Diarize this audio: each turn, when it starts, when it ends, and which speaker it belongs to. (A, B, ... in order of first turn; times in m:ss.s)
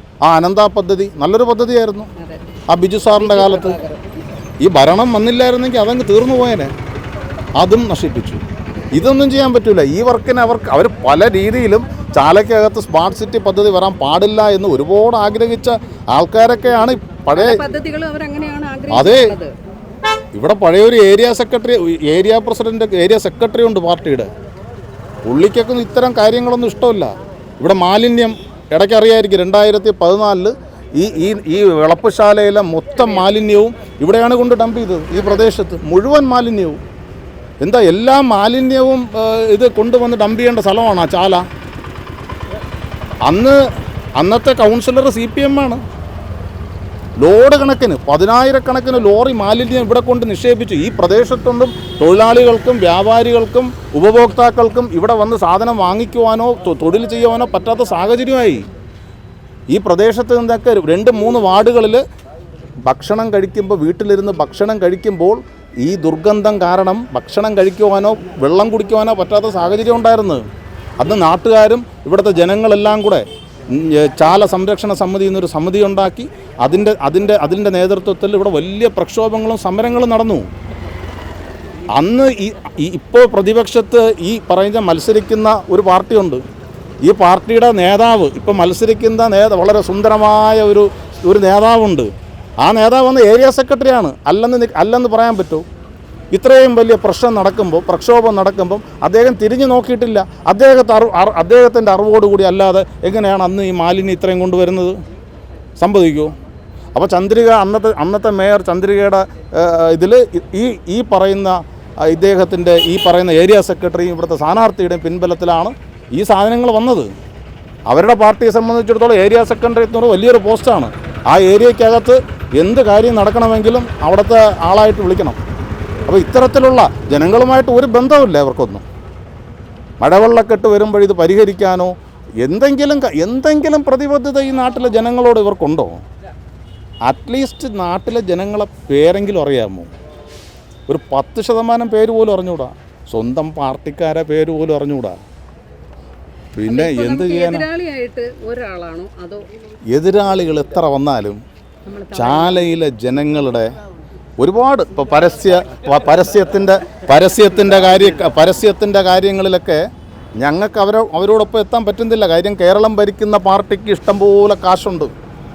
0:00.2-0:02.1 A
0:02.2-0:02.4 B
0:02.7-0:03.8 A
0:03.2-0:04.0 B
0:04.6-0:06.7 A
0:07.6-0:08.4 A
0:08.9-0:17.6 A
0:17.3-0:19.5 B
0:18.9-0:19.3 A
0:20.3-0:24.3 A
0:25.2-0:36.8 A
0:33.0-0:33.2 B
0:35.1-0:35.5 B
0:37.6-0:41.4 A
0:43.2-0:43.6 A
0:44.2-0:45.8 A
0:47.2-0:58.6 A
0:59.7-1:02.0 A
1:02.8-1:10.4 A
1:11.0-1:20.5 A
1:21.9-1:26.4 A
1:27.0-1:32.1 A
1:32.6-1:35.6 A
1:36.3-1:44.9 A
1:45.8-1:46.3 A
1:46.9-1:57.1 A
1:57.9-2:05.4 A
2:06.1-2:08.8 A
2:10.0-2:16.0 A
2:17.0-2:19.9 A
2:20.9-2:25.2 A
2:26.6-2:27.6 A
2:26.6-2:29.4 B
2:29.9-2:31.4 A
2:31.8-2:32.8 B
2:32.1-2:33.7 A
2:34.4-2:39.8 A
2:40.4-2:45.1 A